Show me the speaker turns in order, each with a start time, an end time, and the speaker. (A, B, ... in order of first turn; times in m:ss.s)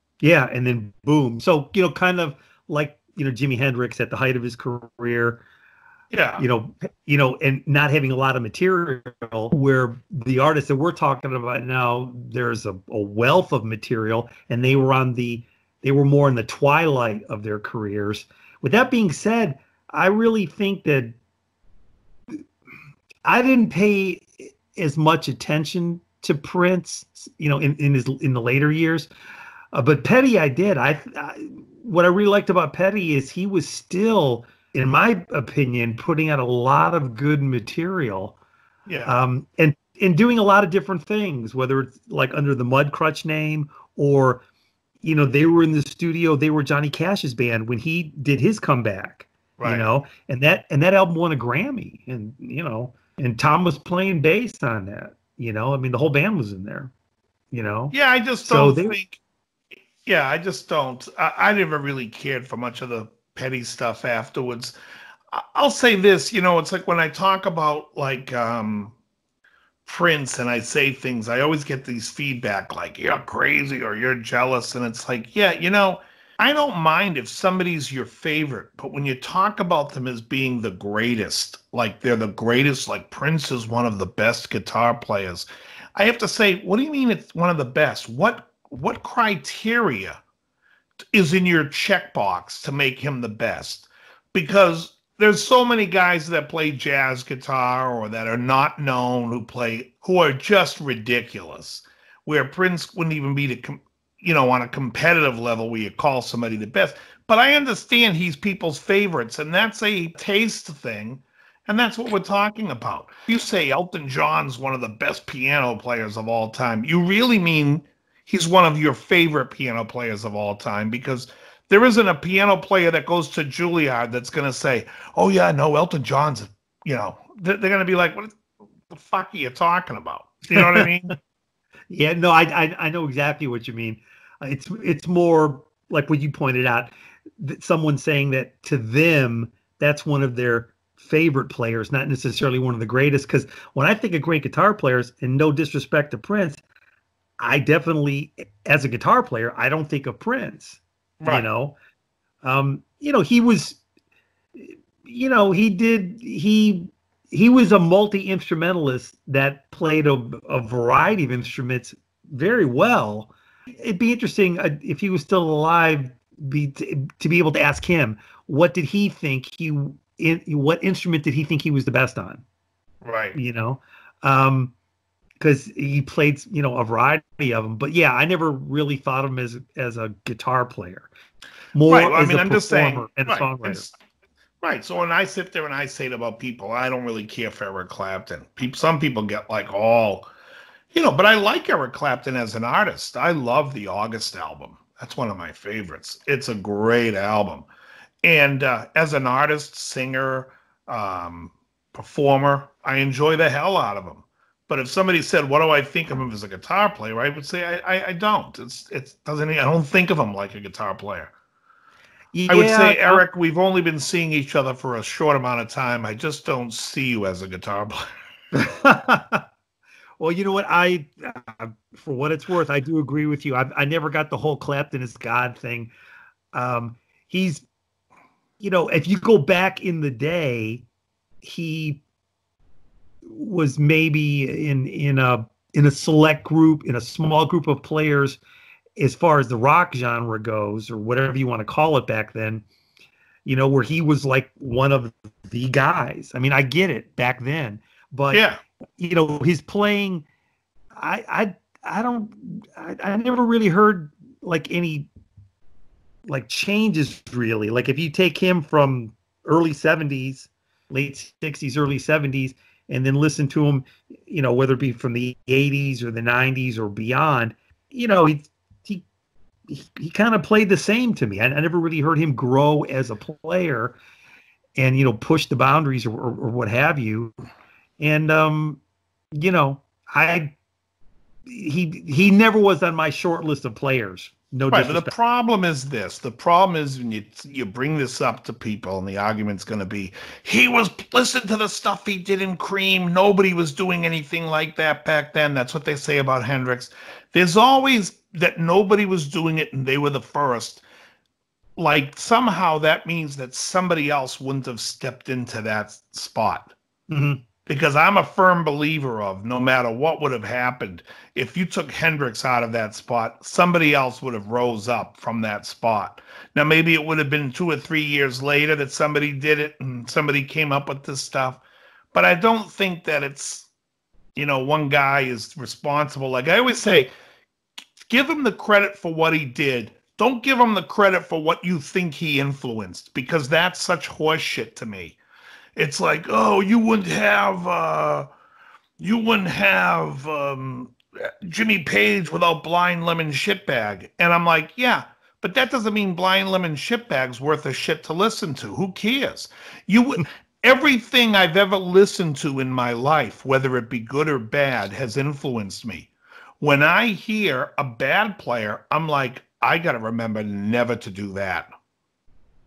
0:00.2-0:05.4 A
0:06.1-0:06.4 B
0:06.4-0:21.2 A
0:23.2-0:29.1 A
0:29.7-0:38.4 A
0:38.9-0:39.1 B
0:39.0-0:44.4 A
0:45.0-0:56.9 A
0:49.6-0:49.8 B
0:57.5-0:59.0 A
0:57.9-0:59.2 B
1:00.0-1:04.7 B
1:05.3-1:08.9 B
1:09.8-1:25.4 B
1:26.0-1:30.2 B
1:31.1-2:08.3 B
2:08.9-2:11.2 B
2:10.5-2:11.1 A
2:11.9-2:26.6 A
2:27.4-2:31.8 A
2:31.2-2:31.4 B
2:32.4-2:33.8 A
2:34.6-2:52.4 A
2:53.0-2:53.4 B
2:53.3-2:54.7 A
2:55.4-3:01.1 A
3:01.7-3:03.9 A
3:01.8-3:03.9 B
3:04.6-3:10.3 B
3:10.9-3:17.7 B
3:18.2-3:31.3 B
3:32.3-3:33.2 A
3:32.5-3:38.0 B
3:38.5-3:39.4 A
3:40.2-3:45.9 A
3:46.5-3:47.6 A
3:48.6-3:50.8 A
3:51.4-3:52.0 A
3:53.3-3:58.4 A
3:59.0-4:02.6 A
4:03.4-4:08.4 A
4:08.3-4:08.6 B
4:09.0-4:10.2 A
4:11.0-4:15.1 A
4:16.3-4:29.0 A
4:29.7-4:34.0 A
4:34.8-4:37.3 A
4:38.0-4:38.8 A
4:39.4-4:40.5 A
4:41.5-4:45.1 A
4:44.7-5:00.8 B
5:01.8-5:06.7 B
5:07.1-5:07.4 A
5:07.6-5:21.6 B
5:22.1-5:23.7 B
5:24.4-5:27.1 B
5:28.1-5:35.2 B
5:35.8-5:38.3 B
5:39.0-5:56.1 B
5:56.6-6:01.7 B